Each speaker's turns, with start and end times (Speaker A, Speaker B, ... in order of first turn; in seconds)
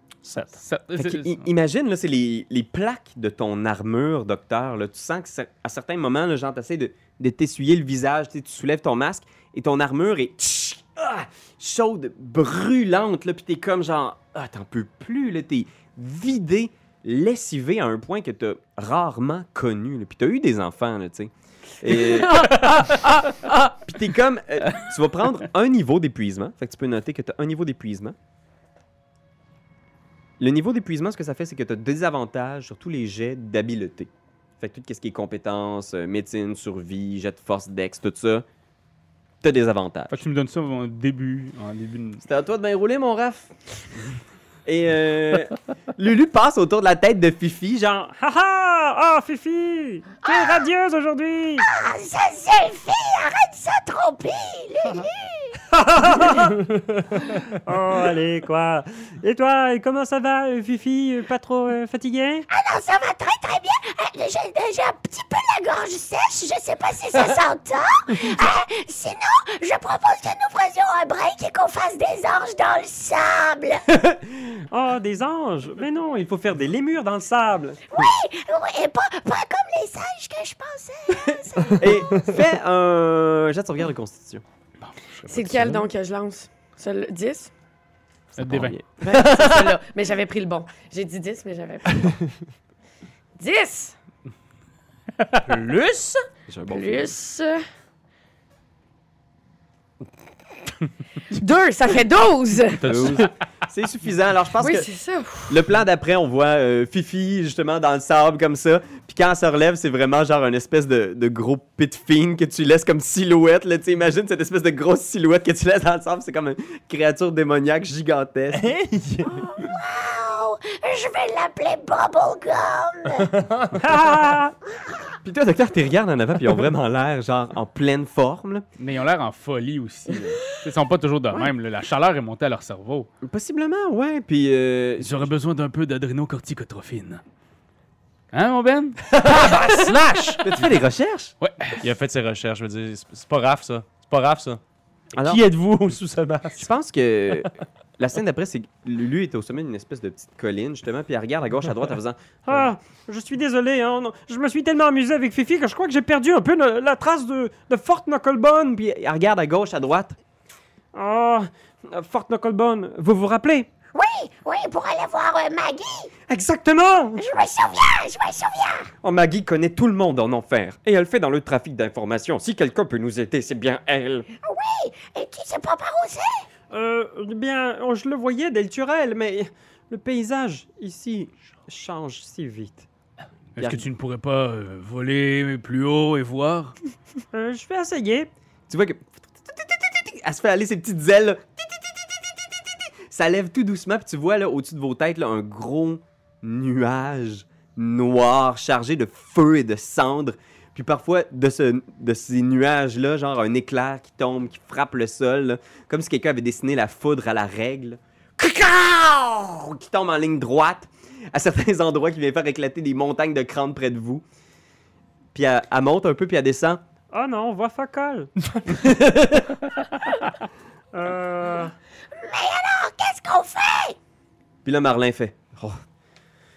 Speaker A: 0.2-0.6, 89.1-89.7, 95.5-96.2, 118.5-119.4, 123.2-123.8, 139.1-140.5, 141.8-144.6, 145.2-146.7
Speaker B: 0.6-1.4, 40.1-42.2, 84.8-85.8, 88.4-88.8, 102.8-103.3, 128.8-133.1, 135.0-137.2, 138.3-139.1, 141.4-141.8, 183.6-186.8
Speaker C: 1.0-22.6, 23.7-28.1, 30.4-38.4, 39.4-40.2, 42.2-43.5, 44.6-48.1, 74.0-74.6, 76.3-77.8, 81.8-84.4, 88.3-88.8, 96.5-97.1, 102.9-104.9, 105.5-118.7, 125.2-128.7, 133.2-135.3, 140.4-141.3, 145.2-145.4, 146.6-152.6, 158.7-160.2, 166.3-167.2, 169.0-174.3, 178.6-182.8, 183.6-183.8, 188.7-214.2, 215.3-216.8, 218.7-219.6, 224.6-225.8
Speaker D: 48.1-51.6, 55.7-56.6, 57.6-62.4, 74.7-77.7, 123.8-124.5, 152.5-158.7, 160.9-163.7, 176.7-178.7, 187.3-188.3, 217.1-218.3, 220.9-221.7
Speaker E: 50.2-50.6, 51.6-55.6, 62.5-73.8, 77.9-81.9, 119.2-123.3, 163.9-166.1, 167.2-168.9, 174.4-176.4, 222.1-223.9
Speaker F: 85.3-87.5, 89.0-92.2, 93.4-94.0, 96.7-97.6, 101.3-102.9, 104.6-105.6